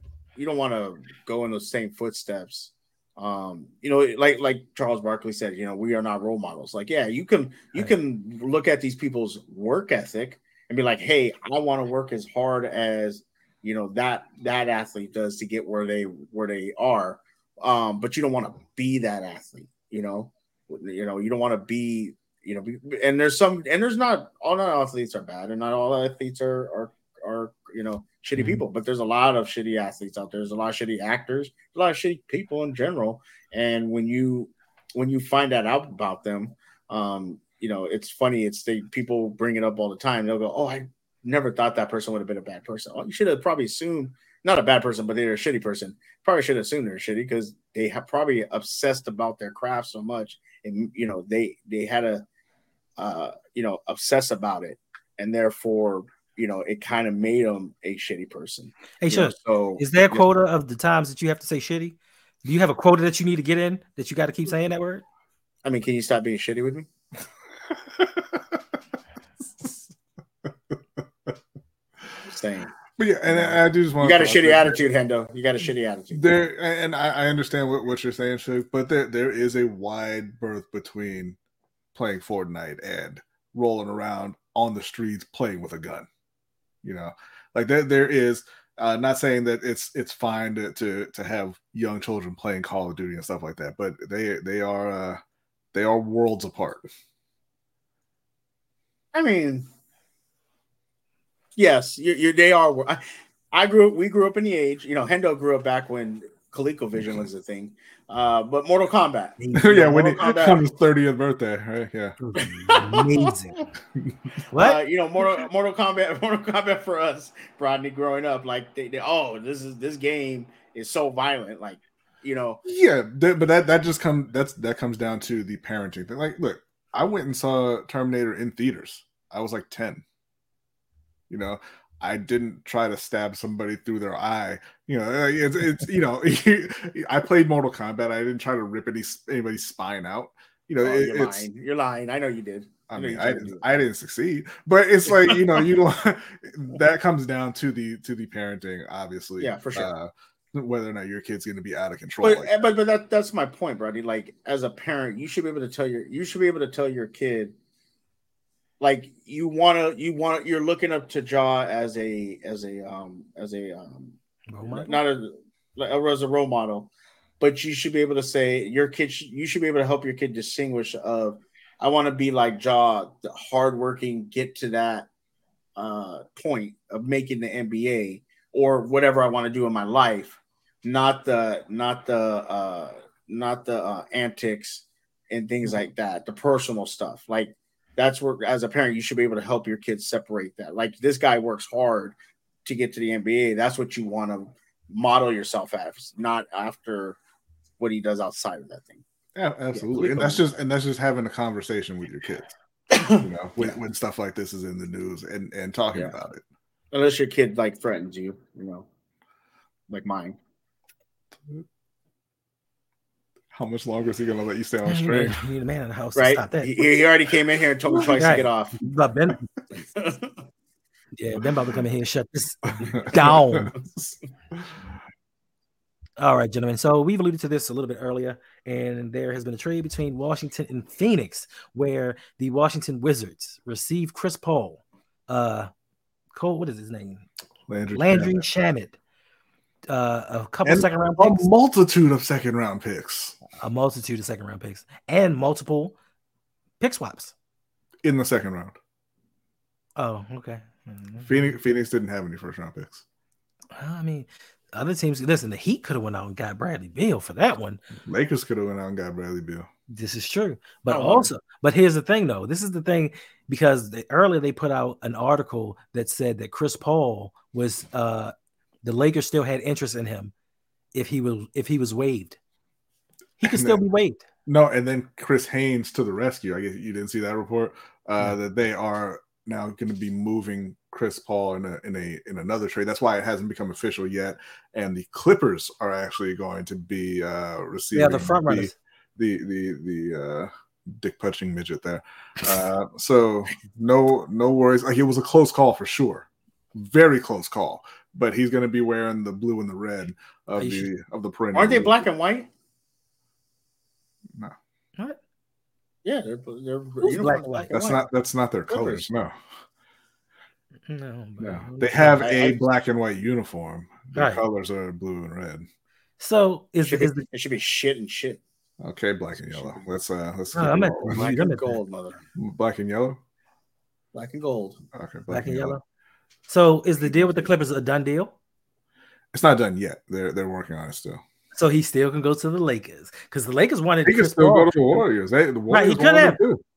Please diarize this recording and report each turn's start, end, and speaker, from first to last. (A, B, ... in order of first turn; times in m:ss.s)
0:00.4-0:52.2 A
0:53.0-1:00.2 A
0:59.0-1:05.0 B
1:05.6-1:06.9 A
1:07.7-1:08.6 C
1:12.2-1:12.7 A
1:13.0-1:14.8 C
1:13.3-1:16.4 A
1:16.1-1:21.4 C
1:21.9-1:26.1 C
1:26.8-1:35.2 C
1:35.7-1:36.8 C
1:39.1-1:39.7 A
1:41.6-1:50.6 A
1:49.4-1:50.1 B
1:49.5-1:52.2 C
1:52.2-1:53.6 B
1:52.4-1:53.6 A
1:54.5-1:54.8 B
1:54.6-2:02.6 A
2:02.6-2:10.0 C
2:11.3-2:21.5 C
2:20.8-2:23.8 A
2:22.9-2:32.5 C
2:25.1-2:25.5 A
2:29.4-2:29.9 A
2:32.2-2:37.5 A
2:38.8-2:44.2 A
2:44.5-2:45.0 B
2:44.7-2:55.1 A
2:55.8-3:17.2 A
3:17.8-3:19.0 A
3:19.3-3:22.5 C
3:19.7-3:20.4 A
3:22.9-3:23.8 A
3:23.2-3:26.4 C
3:26.9-3:28.8 A
3:29.9-3:30.4 A
3:33.5-3:35.4 C
3:34.8-3:36.7 B
3:36.2-3:38.8 A
3:38.2-3:39.5 B
3:39.9-3:40.4 A
3:41.2-3:43.7 B
3:42.8-3:44.6 C
3:46.2-3:55.7 B
3:56.3-3:57.2 B
3:57.7-3:58.4 C
3:57.9-3:59.0 B
3:59.9-4:01.5 B
4:00.6-4:03.4 C
4:03.6-4:05.9 B
4:06.8-4:07.3 B
4:08.0-4:08.8 C
4:10.0-4:11.3 B
4:11.2-4:13.0 C
4:13.8-4:17.8 B
4:18.0-4:19.7 C
4:19.9-4:28.3 B
4:20.9-4:21.3 A
4:28.8-4:30.3 B
4:30.9-4:32.4 B
4:33.4-4:34.2 B
4:33.4-4:33.8 C
4:34.4-5:02.0 C
4:47.9-4:48.7 B
5:00.6-5:00.9 B
5:01.5-5:02.5 A
5:06.0-5:08.0 A
5:07.0-5:07.6 B
5:07.7-5:09.3 C
5:08.7-5:09.0 A
5:10.9-5:12.2 B
5:11.4-5:15.6 C
5:12.1-5:12.6 A
5:14.1-5:14.4 B
5:16.2-5:17.2 B
5:16.8-5:18.4 A
5:18.8-5:21.2 C
5:19.4-5:19.8 A
5:20.5-5:21.8 B
5:21.1-5:22.2 A
5:22.4-5:23.2 C
5:24.1-5:24.8 A
5:24.9-5:25.8 C
5:25.3-5:25.8 B
5:26.5-5:28.4 B
5:27.0-5:27.4 C
5:29.3-5:31.2 C
5:31.5-5:35.0 B
5:34.0-5:36.6 C
5:35.7-5:36.4 B